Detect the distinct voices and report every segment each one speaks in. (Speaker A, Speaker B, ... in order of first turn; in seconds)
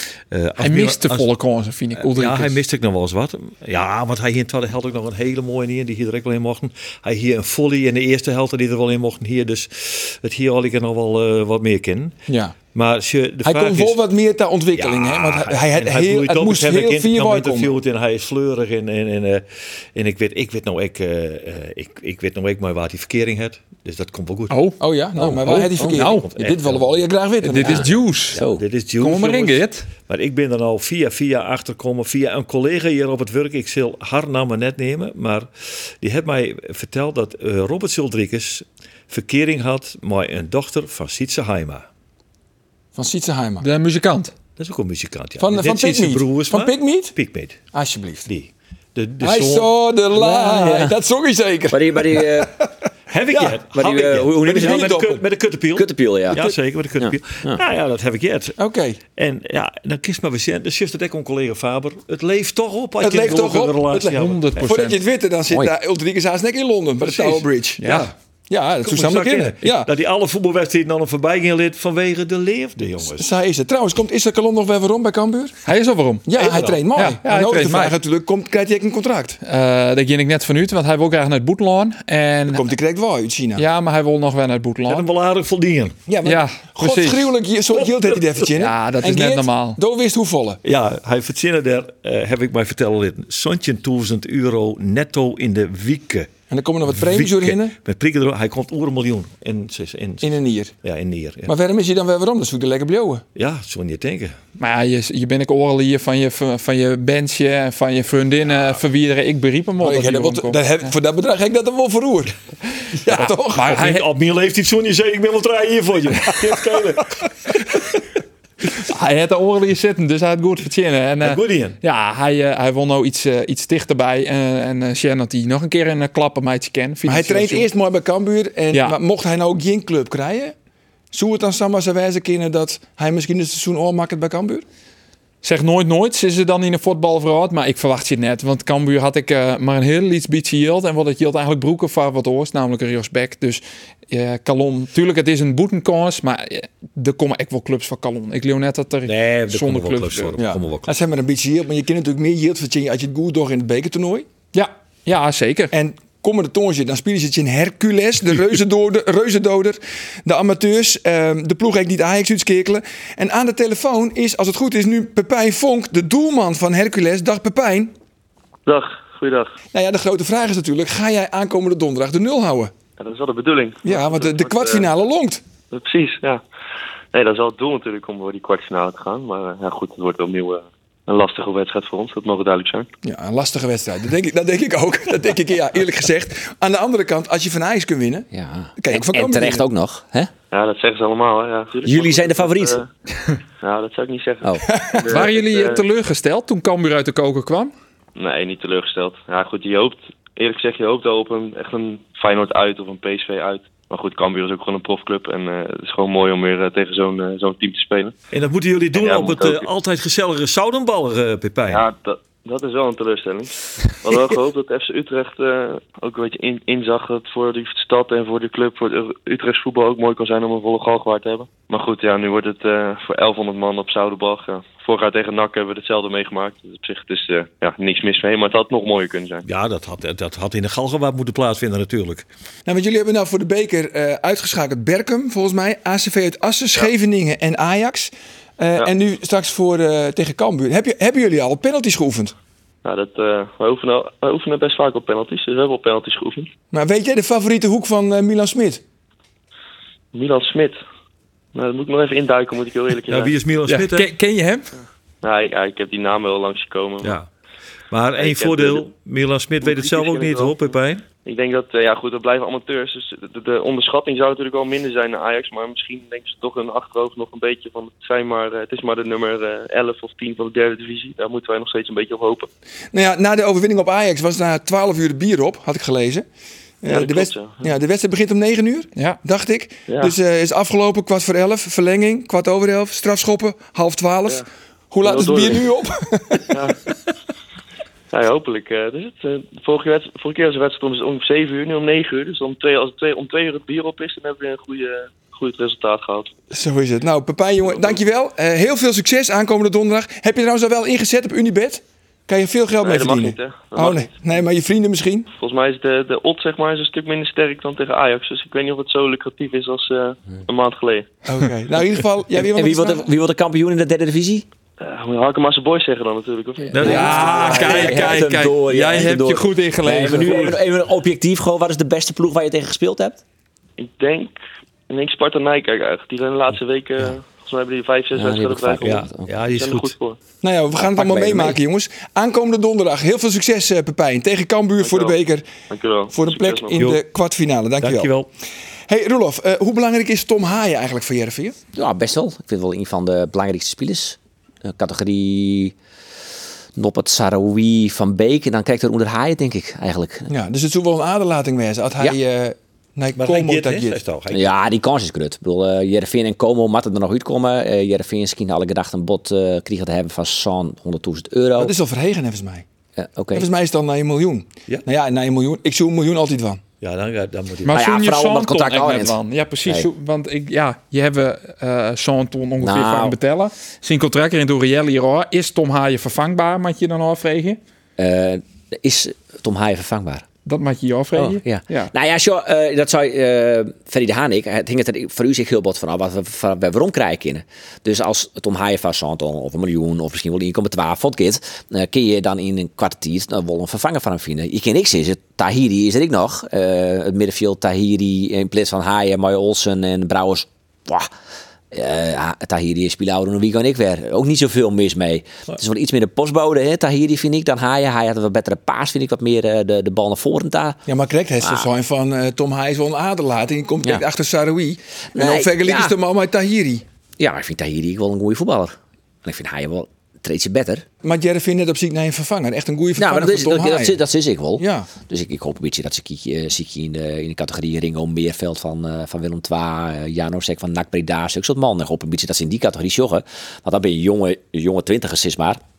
Speaker A: 0.3-1.3, 2.0-12.2, 12.7-14.0, 14.8-24.6, 25.2-26.9, 28.3-41.9, 44.6-47.6, 48.3-49.7, 53.1-58.6, 59.1-64.7, 67.0-68.1, 68.8-73.2, 76.3-76.8, 84.9-86.0, 90.6-96.3, 96.9-101.5, 103.3-104.4, 113.6-117.9, 121.2-121.8, 149.1-150.9, 208.3-211.8, 229.4-232.2, 253.1-254.1, 257.0-257.3, 257.9-261.0, 316.7-318.2, 328.8-329.9, 336.8-337.0, 337.8-338.3, 353.1-354.5, 366.8-367.9
Speaker B: 0.6-2.6, 24.5-26.3, 27.4-28.4, 29.0-29.9, 43.6-44.3, 64.0-65.0, 67.8-68.1, 75.7-76.3, 76.9-78.0, 79.4-82.7, 83.5-85.1, 86.2-87.3, 88.5-89.8, 104.6-110.9, 113.1-114.0, 118.8-127.7, 128.7-129.0, 135.4-150.4, 154.5-155.7, 195.1-197.7, 253.7-254.7, 316.8-320.6, 367.6-377.6, 380.4-381.9
Speaker C: 12.3-12.5, 13.4-17.7, 24.8-27.9, 42.9-43.6, 45.4-47.1, 47.7-48.3, 49.2-52.7, 53.3-53.6, 54.4-55.2, 58.6-59.0, 63.0-67.9, 68.5-69.9, 73.0-75.5, 76.2-79.4, 82.5-83.6, 86.1-90.6, 96.5-97.8, 100.2-100.7, 101.5-103.2, 109.8-112.3, 112.9-113.8, 127.0-130.5, 131.1-134.6, 150.4-154.3, 155.7-167.9, 169.7-172.7, 173.8-175.4, 183.0-188.3, 188.8-189.6, 194.7-195.1, 232.7-242.3, 246.7-248.8, 272.9-276.2, 276.8-286.6, 296.5-305.3, 311.2-313.1, 330.4-335.5, 336.1-338.1, 338.9-341.5, 350.3-354.0, 361.6-362.6, 363.3-366.6, 410.9-416.8, 421.0-424.0, 424.6-424.9
Speaker D: 27.6-28.6, 50.1-51.0, 51.7-52.5, 53.7-55.0, 55.7-56.4, 57.0-57.6, 188.3-190.3, 191.8-192.8, 312.3-314.4, 316.8-323.2, 328.1-329.3, 330.7-331.6, 341.7-345.7, 346.8-350.3, 354.3-361.7, 362.9-363.5, 367.7-369.9, 372.6-373.2, 378.0-380.2, 381.1-401.1, 401.7-410.8, 411.4-411.7, 415.1-415.9, 417.2-420.8, 422.9-435.6
Speaker E: 168.7-169.6, 173.0-174.9, 175.7-176.4, 177.1-182.9, 190.5-192.9, 193.6-195.8, 198.2-208.1, 208.9-209.7, 211.7-229.4, 242.8-246.5, 250.1-250.8, 251.5-253.3, 255.2-257.2, 258.2-258.9, 259.6-260.7, 261.2-272.5, 276.9-277.7, 279.9-280.1, 285.0-285.6, 286.5-286.8, 288.1-296.3, 297.7-298.0, 302.8-304.1, 305.4-311.1, 314.8-317.9, 323.8-324.4, 324.9-328.9, 329.5-330.2, 334.8-335.2, 335.7-336.8